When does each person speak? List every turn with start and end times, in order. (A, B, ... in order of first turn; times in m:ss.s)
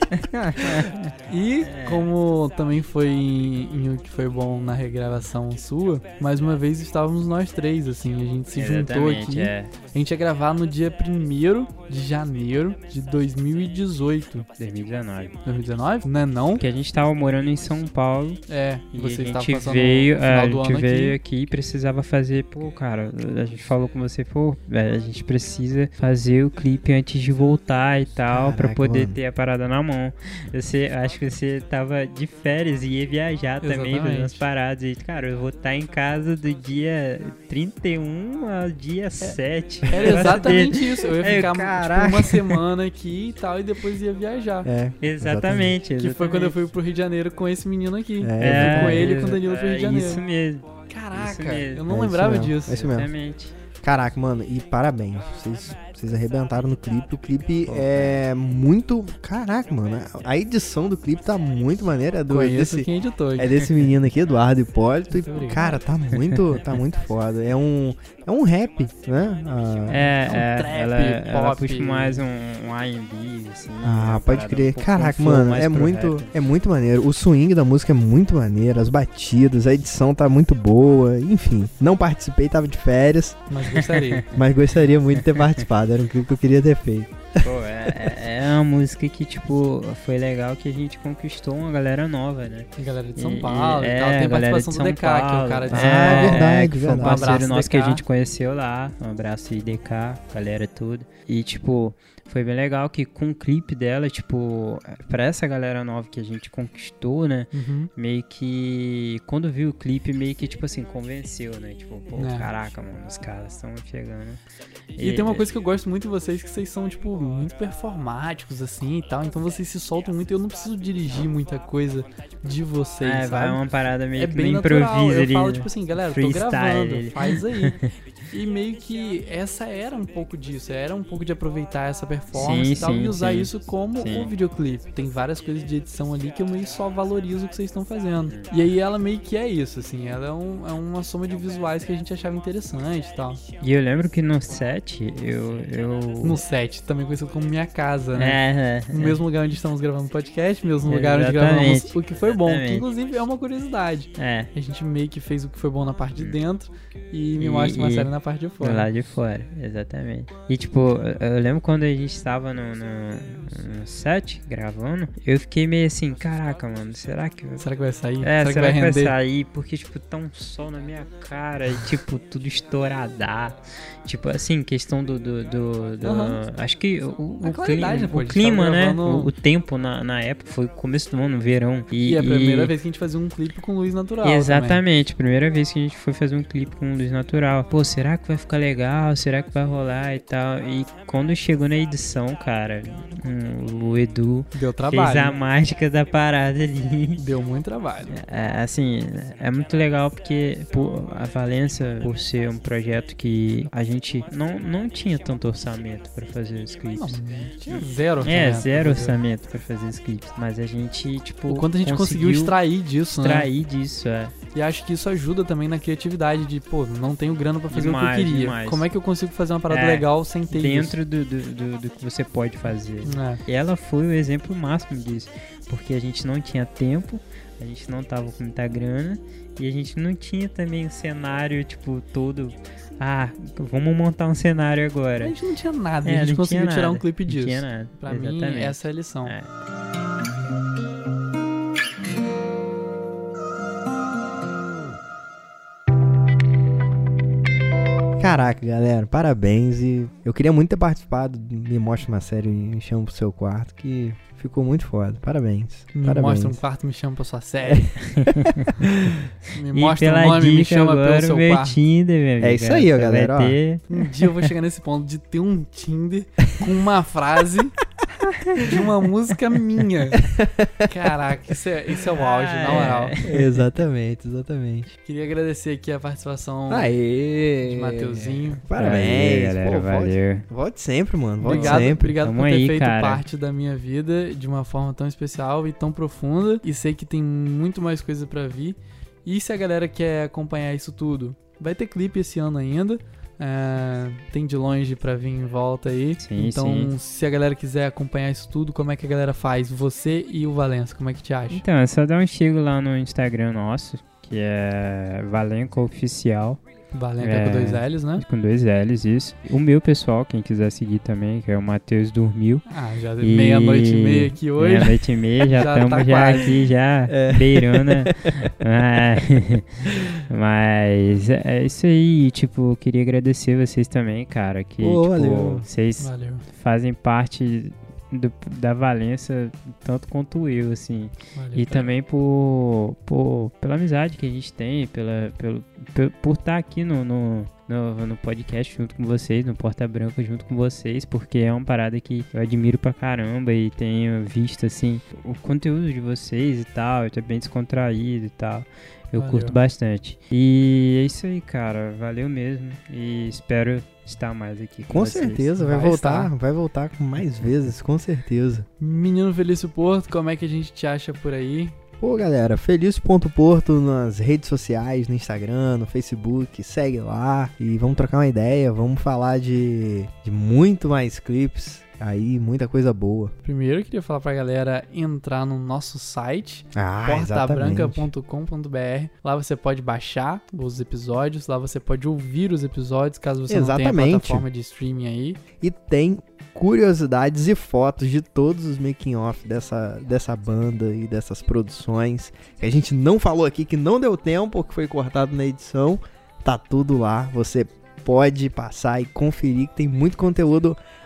0:00.1-0:01.1 A
0:01.3-0:14.5 B
0:01.6-0:02.1 A
0:08.6-0:09.7 A
0:14.6-0:15.3 A
0:15.4-0:16.6 B
0:16.6-0:18.4 A
0:18.5-0:21.2 B
0:18.9-0:42.5 A
0:28.3-0:29.2 C
0:33.6-0:34.4 B
0:39.9-0:44.7 B
0:44.6-0:45.7 C
0:45.0-0:46.5 A
0:46.0-0:50.2 B
0:48.2-0:49.1 C
0:48.4-0:51.9 A
0:50.9-0:52.8 B
0:51.9-0:53.1 C
0:52.7-0:53.5 A
0:53.8-1:10.1 C
0:57.6-0:58.2 A
1:02.3-1:03.5 B
1:05.1-1:05.8 B
1:06.2-1:06.4 A
1:09.9-1:16.3 A
1:10.2-1:12.2 B
1:13.8-1:23.4 C
1:23.5-1:24.2 B
1:23.7-1:24.4 A
1:24.3-1:28.0 C
1:25.1-1:25.6 A
1:27.4-1:54.4 A
1:32.8-1:36.5 B
1:35.7-1:37.3 C
1:37.0-1:38.0 B
1:47.5-1:47.9 B
1:52.1-1:52.5 B
1:55.0-1:55.4 A
1:55.0-2:03.6 B
2:03.0-2:07.9 A
2:04.2-2:07.8 B
2:08.3-2:23.4 B
2:12.3-2:14.3 A
2:23.6-2:26.4 A
2:26.2-2:28.4 B
2:28.2-2:29.2 A
2:28.9-2:38.9 B
2:30.9-2:32.8 A
2:34.2-2:34.5 A
2:37.4-2:38.1 A
2:38.6-2:47.6 A
2:47.6-2:49.1 B
2:48.2-3:02.7 A
2:56.0-2:56.4 B
2:57.4-2:59.3 B
3:02.0-3:04.8 B
3:04.2-3:17.2 A
3:14.5-3:15.3 B
3:17.2-3:18.2 B
3:18.1-3:32.6 A
3:27.0-3:29.2 B
3:31.4-3:33.5 B
3:33.1-3:34.3 A
3:34.5-3:40.9 B
3:37.7-3:38.9 A
3:39.7-3:55.3 A
3:43.0-3:43.4 B
3:55.2-3:59.3 B
3:56.0-3:59.5 A
4:08.2-4:16.6 C
4:15.9-4:17.9 B
4:17.6-4:18.6 C
4:18.1-4:18.7 A
4:19.5-4:21.8 B
4:19.7-4:24.5 A
4:22.4-4:23.6 C
4:23.9-4:27.7 B
4:28.6-4:30.3 B
4:30.2-4:31.1 C
4:30.9-4:33.2 B
4:32.2-4:33.6 A
4:33.2-4:34.9 C
4:35.0-4:36.9 B
4:36.7-4:42.1 C
4:37.6-4:38.6 B
4:38.7-4:40.5 A
4:41.4-5:01.6 B
4:41.5-4:43.2 A
4:56.2-4:56.9 A
5:01.5-5:06.6 A
5:06.9-5:08.2 B
5:07.2-5:12.6 A
5:12.7-5:16.5 B
5:13.2-5:55.5 A
5:17.1-5:18.5 C
5:24.8-5:25.6 C
5:26.0-5:26.4 B
5:31.3-5:31.9 B
5:49.2-5:49.5 B
5:54.9-5:58.6 C
5:55.6-5:56.3 B
5:58.8-6:01.8 B
6:02.0-6:13.3 C
6:13.4-6:25.4 B
6:16.7-6:18.1 C
6:23.5-6:24.4 C
6:25.6-6:40.8 C